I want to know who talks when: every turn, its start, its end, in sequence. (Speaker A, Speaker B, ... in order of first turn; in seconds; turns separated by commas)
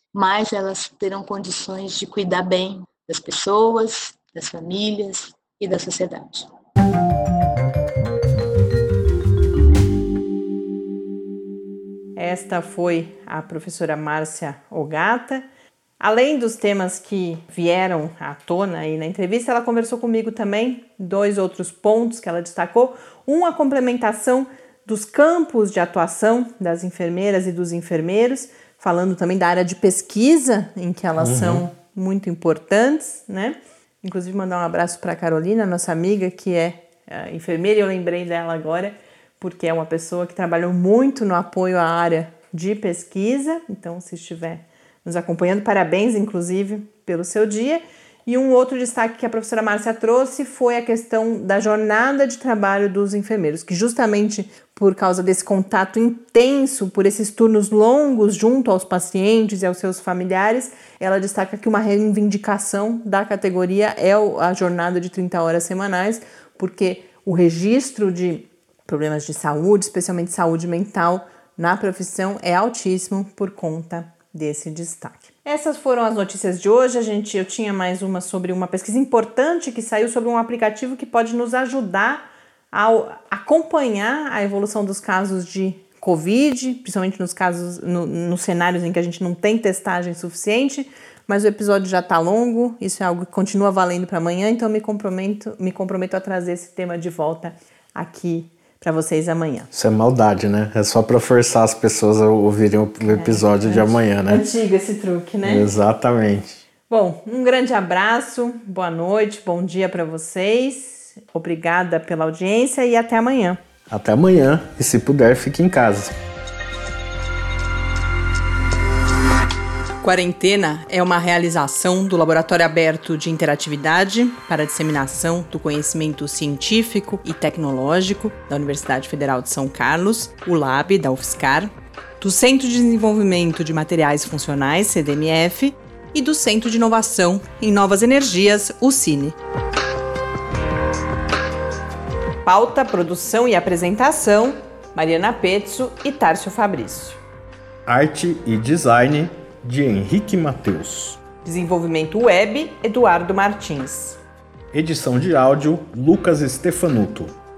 Speaker A: 0.1-6.5, Speaker B: 12.2-15.4, Speaker B: 16.0-99.7, Speaker C: 31.2-31.6, Speaker C: 99.7-104.5, Speaker B: 103.0-105.7, Speaker C: 105.4-106.6, Speaker B: 106.9-113.6, Speaker C: 113.9-116.1, Speaker B: 120.0-139.4, Speaker B: 142.5-147.2, Speaker C: 147.9-151.2, Speaker B: 151.4-154.2, Speaker C: 154.7-157.3